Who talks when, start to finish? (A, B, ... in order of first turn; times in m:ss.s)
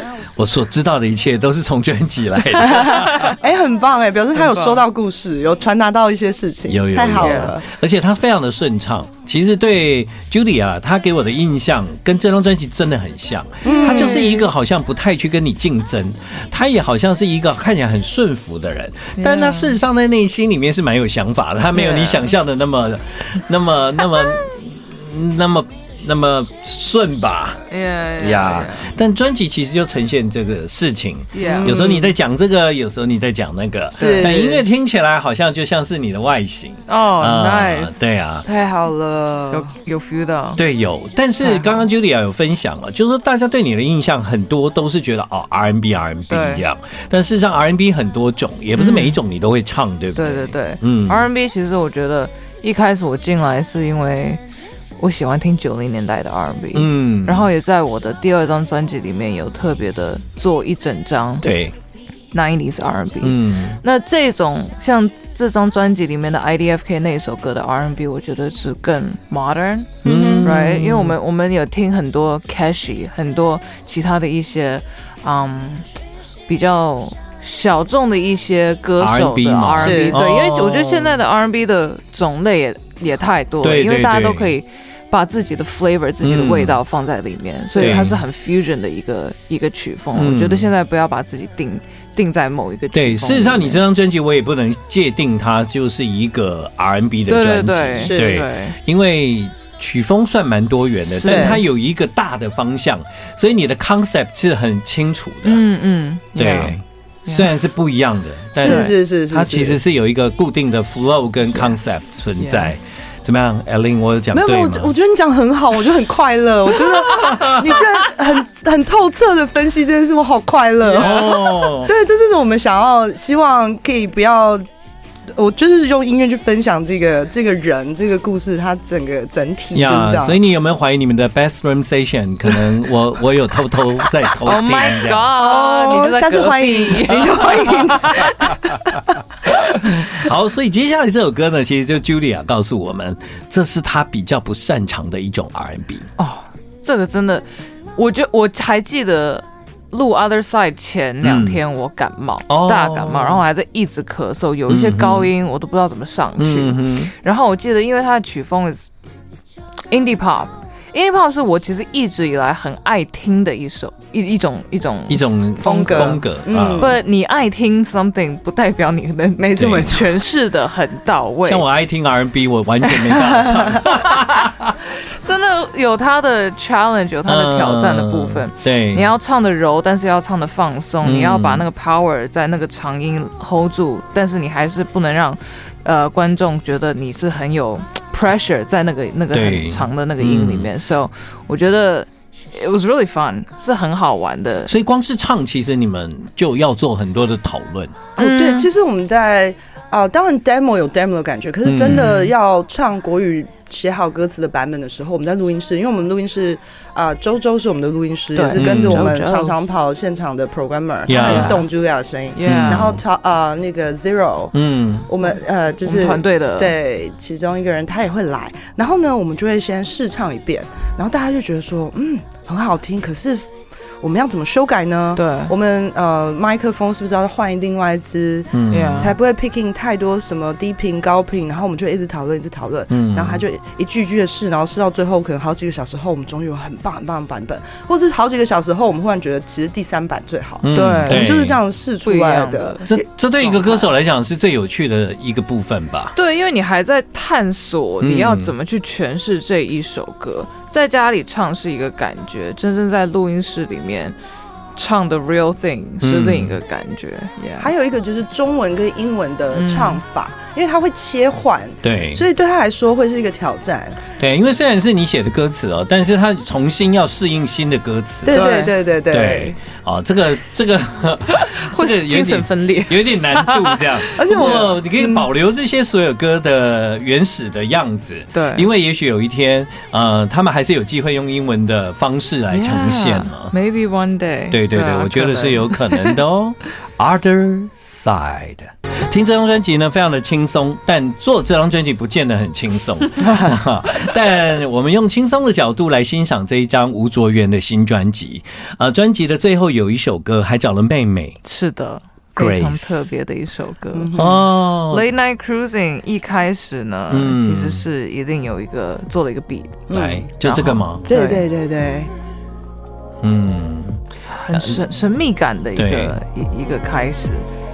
0:00.3-0:03.3 A
0:02.6-0:07.7 B
0:04.4-0:04.8 C
0:06.7-0:27.6 A
0:07.2-0:07.5 C
0:13.6-0:14.4 B
0:13.6-0:14.4 C
0:19.2-0:19.8 C
0:21.7-0:22.4 C
0:27.7-0:28.9 C
0:28.2-0:38.5 A
0:31.3-0:31.8 C
0:31.4-0:32.1 B
0:34.0-0:34.6 B
0:34.0-0:34.4 C
0:36.9-0:38.0 C
0:38.4-0:39.7 B
0:39.5-0:40.6 C
0:40.6-0:51.3 A
0:41.4-0:41.8 C
0:46.3-0:46.6 C
0:48.8-0:49.2 C
0:50.2-0:54.4 C
0:55.0-1:01.4 C
0:56.7-0:57.5 A
1:01.4-1:01.7 A
1:02.3-1:15.8 C
1:03.2-1:03.8 A
1:10.0-1:10.6 B
1:10.0-1:11.1 A
1:16.5-1:33.8 C
1:19.0-1:21.2 A
1:19.8-1:20.2 B
1:23.6-1:24.5 A
1:26.2-1:26.8 A
1:27.8-1:28.2 A
1:30.1-1:30.7 A
1:32.9-1:45.6 A
1:37.3-1:38.8 C
1:38.0-1:38.4 B
1:41.2-1:41.6 C
1:41.2-1:41.6 B
1:45.4-1:47.5 C
1:46.4-1:54.9 A
1:48.5-1:49.8 B
1:48.6-1:48.9 C
1:54.3-2:04.6 B
1:57.2-1:57.6 A
2:00.9-2:01.9 A
2:01.0-2:01.4 C
2:05.3-2:10.4 B
2:09.7-2:15.3 A
2:14.4-2:18.5 C
2:15.3-2:18.8 B
2:19.5-2:26.1 A
2:26.2-2:38.8 C
2:31.2-2:31.6 A
2:32.5-2:33.4 A
2:34.7-2:35.3 A
2:36.4-2:37.1 A
2:39.9-2:46.2 C
2:45.1-2:46.9 A
2:45.6-2:47.0 B
2:46.8-2:51.6 C
2:49.4-2:50.1 B
2:49.6-2:49.9 A
2:51.4-2:54.7 A
2:53.8-2:54.5 C
2:55.1-3:14.7 C
2:57.3-2:59.1 A
3:01.0-3:01.6 A
3:09.3-3:10.7 A
3:14.7-3:18.0 A
3:18.2-3:18.7 C
3:18.2-3:34.5 B
3:21.6-3:22.3 A
3:21.8-3:22.2 C
3:28.3-3:29.6 C
3:28.5-3:29.1 A
3:31.1-3:31.6 A
3:31.1-3:31.6 C
3:32.3-3:32.9 C
3:32.4-3:33.0 A
3:34.5-3:35.1 A
3:35.0-3:43.5 B
3:35.8-3:36.7 C
3:44.0-4:02.8 B
3:45.2-3:45.5 C
3:48.5-3:49.1 A
3:48.7-3:49.1 C
3:52.9-3:53.4 A
4:00.6-4:01.6 A
4:00.7-4:01.4 C
4:02.0-4:03.9 C
4:02.9-4:06.1 A
4:06.1-4:14.1 C
4:08.0-4:08.5 A
4:14.8-4:17.7 C
4:16.0-4:16.6 A
4:17.6-4:24.0 B
4:19.5-4:20.0 C
4:21.8-4:22.2 A
4:24.2-4:28.4 A
4:28.2-4:29.6 B
4:28.3-4:28.8 C
4:29.1-4:43.5 A
4:31.3-4:34.6 C
4:34.2-4:35.2 B
4:38.3-4:38.7 C
4:42.5-4:46.2 C
4:44.5-5:01.4 A
5:01.4-5:04.3 C
5:02.4-5:03.1 A
5:03.9-5:04.4 B
5:04.2-5:05.0 A
5:04.9-5:09.9 C
5:07.1-5:07.8 A
5:09.9-5:10.3 B
5:09.9-5:11.0 A
5:10.4-5:11.4 C
5:11.0-5:12.1 B
5:13.2-5:14.8 A
5:14.3-5:17.5 C
5:15.8-5:16.2 A